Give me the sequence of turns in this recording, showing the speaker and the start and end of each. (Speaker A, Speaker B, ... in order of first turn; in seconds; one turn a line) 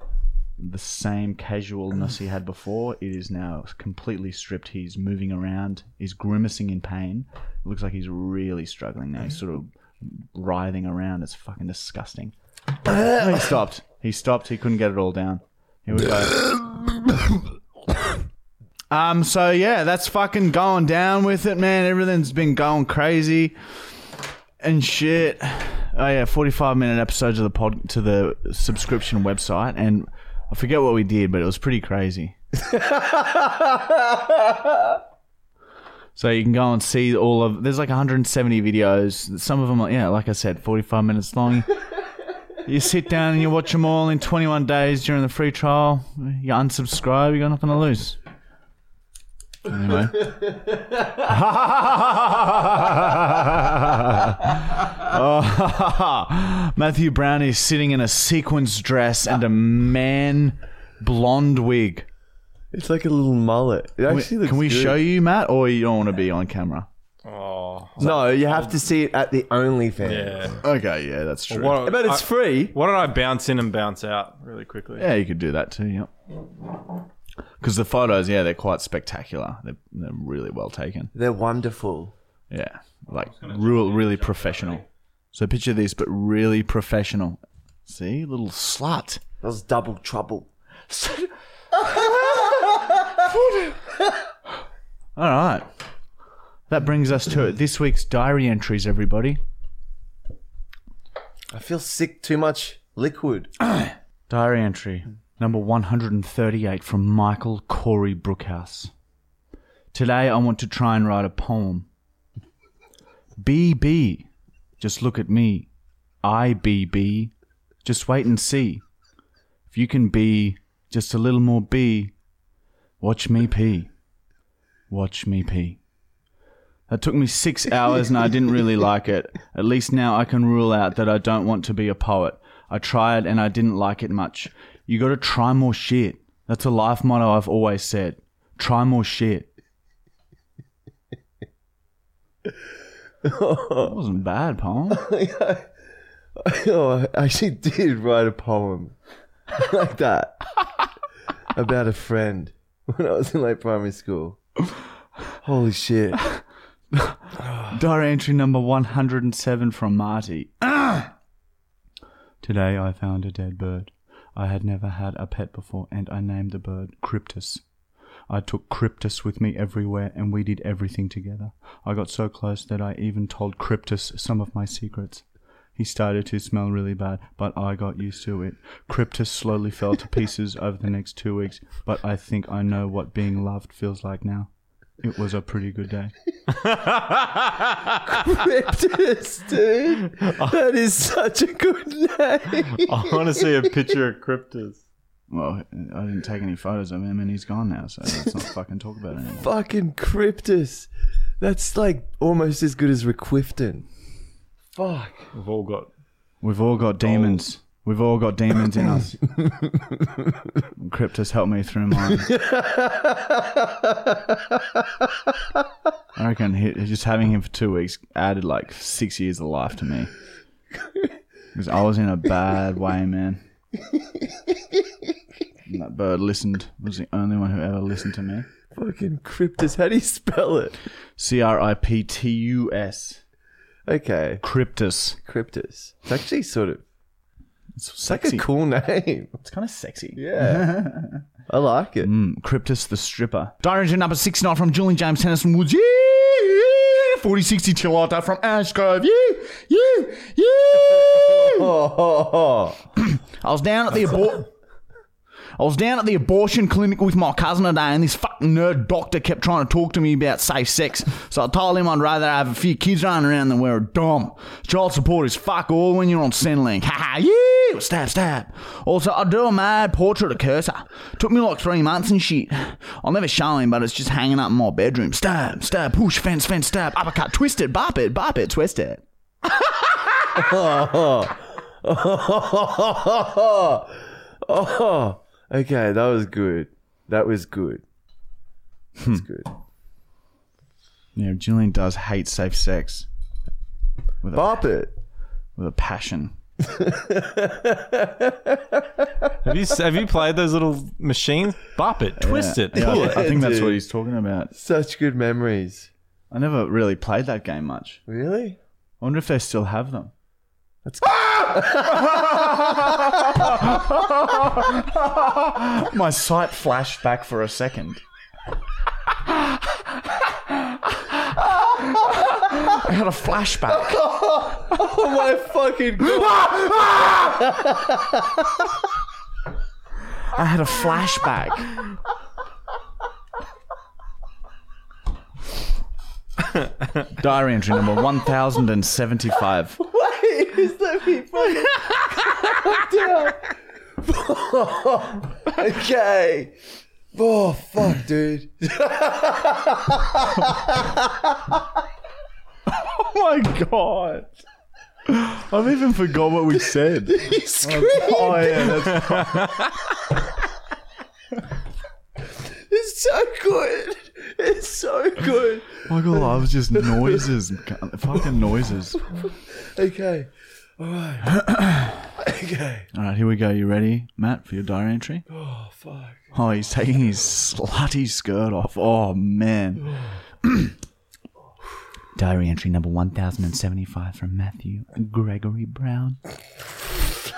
Speaker A: 0.6-12.3
Speaker A: 12.9-16.7
Speaker A: 18.9-23.5
Speaker A: 24.6-32.3
Speaker B: 32.5-35.0
Speaker A: 36.1-41.7
Speaker A: 42.6-48.2
Speaker A: 49.6-50.5
Speaker A: 51.1-62.1
Speaker B: 62.7-65.0
Speaker A: 64.1-66.9
Speaker C: 67.2-68.8
Speaker B: 68.0-70.6
Speaker C: 70.0-70.6
Speaker A: 70.6-71.8
Speaker C: 71.5-75.1
Speaker B: 71.8-72.8
Speaker A: 75.0-76.1
Speaker A: 77.6-81.1
Speaker B: 81.1-82.1
Speaker A: 82.5-89.2
Speaker B: 89.4-90.5
Speaker A: 90.9-91.3
Speaker B: 91.7-93.3
Speaker A: 93.3-93.7
Speaker B: 93.8-94.2
Speaker A: 95.2-95.7
Speaker A: 96.7-99.4
Speaker B: 101.5-103.5
Speaker A: 103.7-108.9
Speaker A: 109.9-111.9
Speaker A: 113.4-114.3
Speaker A: 114.8-115.7
Speaker A: 116.2-117.3
Speaker A: 117.8-118.8
Speaker A: 119.7-122.1
Speaker A: 123.0-123.9
Speaker A: 124.9-125.8
Speaker A: 126.9-139.5
Speaker B: 143.2-143.9
Speaker A: 143.8-145.0
Speaker B: 144.9-145.7
Speaker B: 146.3-148.9
Speaker B: 149.5-150.4
Speaker B: 151.5-154.4
Speaker B: 155.4-156.2
Speaker A: 156.9-161.1
Speaker A: 162.4-167.6
Speaker A: 168.3-175.2
Speaker A: 175.8-184.5
Speaker A: 185.0-186.1
Speaker C: 186.5-188.1
Speaker B: 188.0-193.9
Speaker C: 190.2-190.5
Speaker C: 192.7-194.8
Speaker A: 195.3-199.5
Speaker B: 199.4-200.9
Speaker B: 201.4-203.9
Speaker B: 204.7-205.3
Speaker C: 205.3-205.9
Speaker A: 206.4-209.2
Speaker B: 209.3-210.6
Speaker A: 210.8-212.3
Speaker B: 212.1-215.6
Speaker A: 216.1-220.1
Speaker B: 220.8-221.1
Speaker A: 221.5-223.4
Speaker B: 223.8-224.9
Speaker A: 225.7-228.5
Speaker B: 228.7-230.8
Speaker A: 231.2-233.2
Speaker B: 233.8-234.4
Speaker A: 234.4-235.2
Speaker B: 235.2-236.8
Speaker A: 237.8-238.4
Speaker B: 238.1-239.4
Speaker A: 239.4-241.2
Speaker B: 240.2-240.8
Speaker B: 241.5-242.1
Speaker A: 242.0-251.7
Speaker B: 250.8-252.8
Speaker A: 252.9-254.5
Speaker A: 255.6-279.0
Speaker B: 280.3-287.8
Speaker A: 289.0-289.2
Speaker B: 289.1-289.5
Speaker A: 291.1-293.1
Speaker A: 294.2-294.6
Speaker B: 294.3-294.9
Speaker A: 295.6-296.4
Speaker B: 296.6-299.3
Speaker C: 299.4-303.3
Speaker A: 302.2-304.5
Speaker B: 302.7-303.8
Speaker B: 304.5-305.9
Speaker A: 306.3-308.0
Speaker B: 308.1-308.6
Speaker A: 309.0-310.1
Speaker B: 310.8-313.7
Speaker A: 312.1-318.0
Speaker A: 321.8-324.0
Speaker B: 323.7-328.7
Speaker A: 326.4-327.1
Speaker A: 330.3-331.7
Speaker A: 337.1-339.8
Speaker B: 339.8-346.5
Speaker B: 347.1-351.6
Speaker A: 352.7-354.3
Speaker A: 355.1-359.6
Speaker B: 357.0-359.5
Speaker B: 362.3-367.3
Speaker A: 365.9-369.0
Speaker B: 369.0-371.5
Speaker A: 371.3-372.1
Speaker B: 372.2-372.9
Speaker A: 372.9-375.2
Speaker B: 375.3-376.3
Speaker A: 376.3-380.7
Speaker A: 382.1-386.2